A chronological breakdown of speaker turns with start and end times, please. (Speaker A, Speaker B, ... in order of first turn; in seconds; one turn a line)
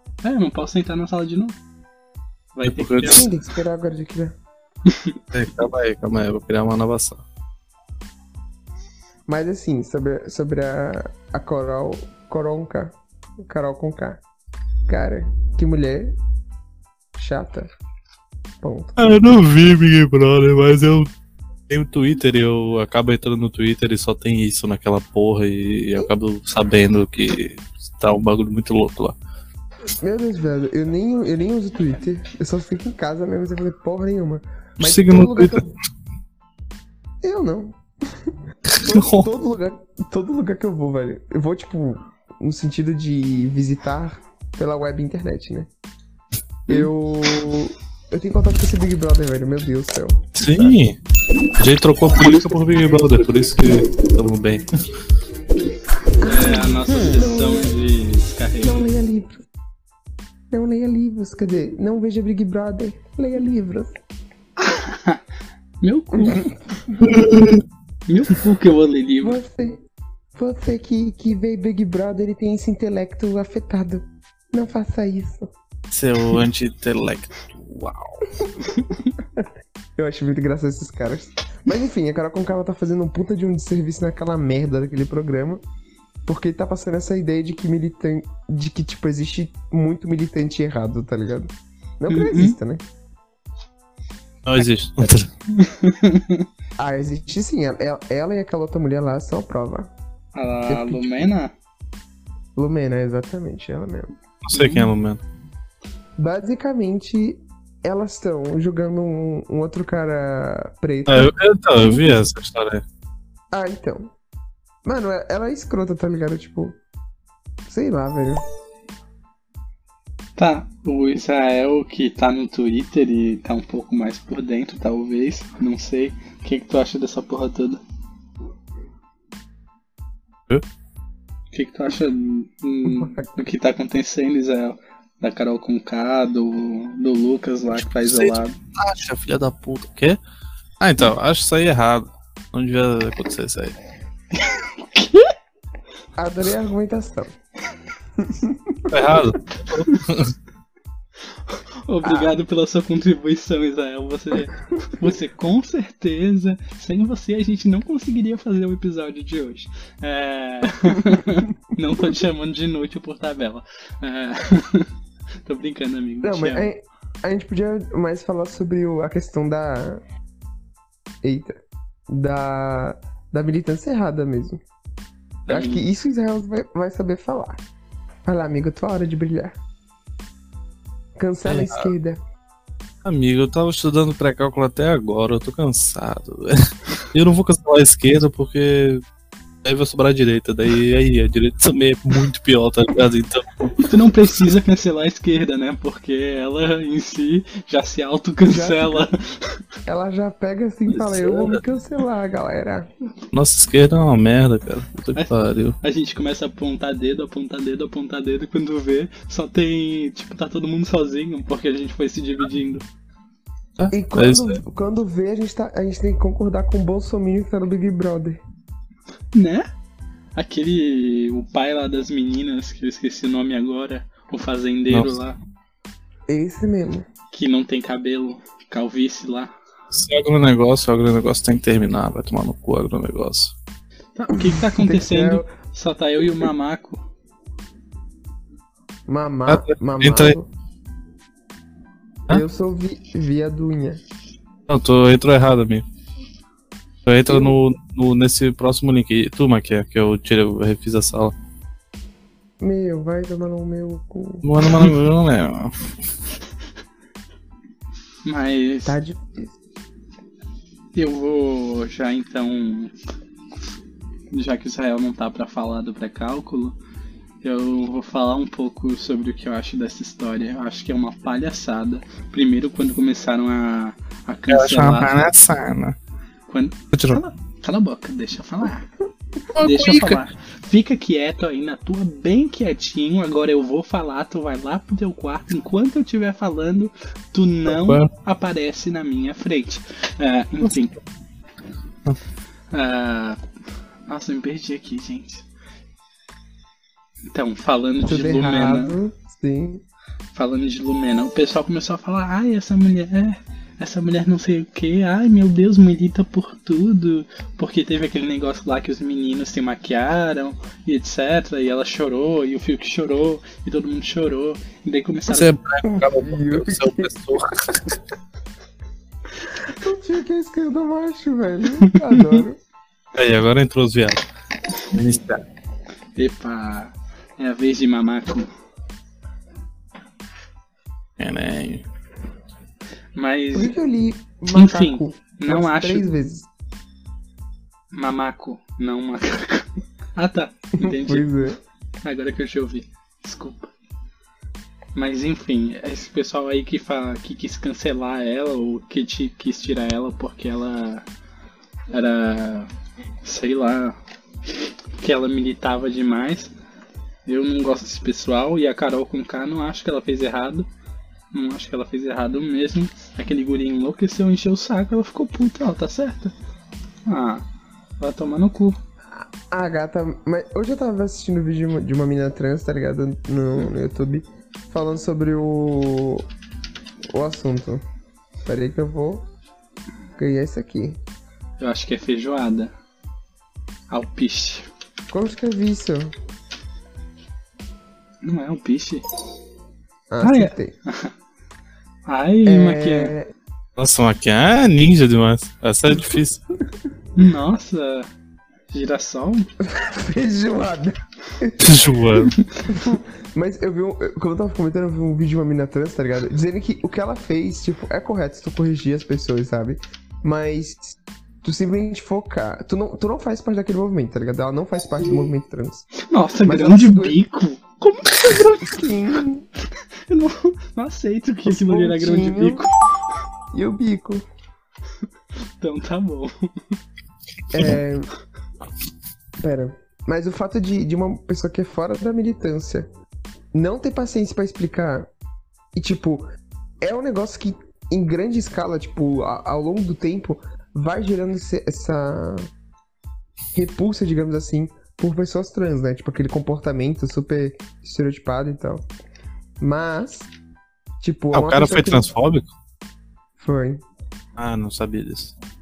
Speaker A: 0.2-1.6
Speaker A: 2.5-3.3
Speaker B: 2.6-3.3
Speaker C: 3.0-4.4
Speaker A: 4.9-5.2
Speaker B: 5.3-7.2
Speaker C: 9.3-14.2
Speaker C: 14.9-16.1
Speaker C: 17.1-17.7
Speaker C: 18.6-19.0
Speaker B: 19.0-21.1
Speaker B: 21.7-29.2
Speaker C: 29.9-35.7
Speaker B: 34.8-35.7
Speaker C: 37.2-37.8
Speaker B: 38.7-39.3
Speaker C: 38.8-45.7
Speaker C: 46.7-50.7
Speaker B: 50.4-51.0
Speaker B: 51.6-54.7
Speaker C: 56.2-57.7
Speaker A: 56.2-58.9
Speaker C: 58.6-59.4
Speaker C: 60.5-64.0
Speaker A: 64.7-65.2
Speaker A: 65.8-66.5
Speaker C: 66.2-66.4
Speaker B: 67.0-67.6
Speaker A: 68.1-69.4
Speaker C: 69.2-69.8
Speaker C: 70.3-75.5
Speaker B: 75.9-78.2
Speaker A: 78.6-79.1
Speaker C: 79.4-85.6
Speaker C: 86.3-92.8
Speaker A: 92.1-92.6
Speaker B: 94.5-95.3
Speaker A: 95.5-96.5
Speaker C: 96.8-99.9
Speaker A: 100.3-101.5
Speaker C: 100.7-101.3
Speaker C: 102.6-104.1
Speaker B: 104.5-105.2
Speaker A: 104.5-104.9
Speaker C: 106.2-111.3
Speaker B: 111.1-112.8
Speaker C: 113.5-114.1
Speaker C: 114.8-116.8
Speaker C: 117.7-118.4
Speaker A: 120.4-127.8
Speaker A: 131.5-138.6
Speaker C: 132.8-133.3
Speaker B: 137.8-140.2
Speaker B: 140.8-143.8
Speaker A: 144.3-145.3
Speaker C: 146.2-147.3
Speaker C: 148.2-149.2
Speaker B: 148.9-150.3
Speaker A: 151.5-164.9
Speaker C: 152.0-152.3
Speaker A: 165.5-166.7
Speaker C: 166.2-170.0
Speaker C: 171.2-174.6
Speaker A: 175.5-175.8
Speaker C: 175.5-177.6
Speaker C: 178.2-179.6
Speaker C: 181.2-182.2
Speaker B: 181.5-181.9
Speaker B: 183.0-189.0
Speaker B: 189.6-193.9
Speaker A: 193.8-199.6
Speaker C: 198.5-199.1
Speaker C: 199.9-202.9
Speaker A: 200.9-201.3
Speaker B: 203.3-205.8
Speaker A: 205.2-212.8
Speaker B: 213.8-214.6
Speaker C: 213.9-218.4
Speaker A: 219.3-219.7
Speaker A: 220.4-225.4
Speaker B: 224.9-225.2
Speaker C: 226.3-227.1
Speaker A: 227.3-229.5
Speaker B: 229.9-233.5
Speaker A: 234.2-237.0
Speaker C: 234.4-235.5
Speaker C: 239.1-240.5
Speaker B: 239.5-240.4
Speaker C: 242.3-244.0
Speaker B: 244.7-245.8
Speaker B: 247.1-251.3
Speaker C: 247.3-247.6
Speaker C: 252.6-254.4
Speaker B: 254.4-255.7
Speaker A: 258.2-259.0
Speaker C: 258.9-259.5
Speaker A: 260.9-262.9
Speaker A: 264.3-266.8
Speaker A: 267.4-275.1
Speaker B: 274.5-276.0
Speaker A: 276.5-276.8
Speaker B: 276.9-277.2
Speaker A: 277.6-278.9
Speaker B: 279.5-280.2
Speaker A: 279.6-291.0
Speaker B: 287.7-288.1
Speaker A: 292.7-293.4
Speaker A: 294.1-295.4
Speaker A: 297.3-299.0
Speaker C: 298.0-299.8
Speaker A: 300.3-315.6
Speaker B: 315.3-317.8
Speaker C: 315.8-317.2
Speaker C: 319.7-322.6
Speaker A: 321.9-322.4
Speaker B: 323.1-324.2
Speaker B: 324.9-325.4
Speaker A: 326.2-328.5
Speaker B: 331.2-331.8
Speaker A: 333.2-333.7
Speaker C: 333.5-336.5
Speaker A: 334.5-336.1
Speaker A: 337.9-341.3
Speaker C: 340.8-341.6
Speaker A: 342.0-343.7
Speaker A: 344.9-351.1
Speaker A: 351.9-352.7
Speaker A: 353.2-354.0
Speaker A: 355.0-356.5
Speaker A: 357.3-360.7
Speaker A: 361.3-366.3
Speaker A: 367.1-367.4
Speaker A: 368.0-368.8
Speaker C: 369.1-376.3
Speaker C: 377.1-377.8
Speaker C: 378.5-379.3
Speaker C: 380.2-381.0
Speaker A: 381.6-382.7
Speaker A: 383.9-384.7
Speaker C: 385.1-386.1
Speaker A: 388.2-389.0
Speaker C: 390.1-390.8
Speaker A: 390.2-391.1
Speaker A: 392.1-393.1
Speaker C: 392.4-393.3
Speaker B: 393.8-396.4
Speaker A: 397.1-398.1
Speaker A: 398.7-399.5
Speaker C: 399.6-401.7
Speaker B: 401.6-402.3
Speaker C: 402.7-415.9
Speaker A: 416.1-418.8
Speaker C: 416.4-417.2
Speaker C: 418.6-419.5
Speaker A: 420.1-422.7
Speaker C: 421.5-422.7
Speaker C: 423.5-424.2
Speaker A: 425.6-426.3
Speaker C: 427.5-428.1
Speaker C: 429.4-432.9
Speaker C: 433.5-435.1
Speaker C: 435.8-436.3
Speaker C: 436.8-442.5
Speaker C: 443.5-448.9
Speaker C: 449.6-450.3
Speaker C: 451.0-452.1
Speaker B: 451.3-452.5
Speaker C: 453.4-453.8
Speaker B: 454.4-455.3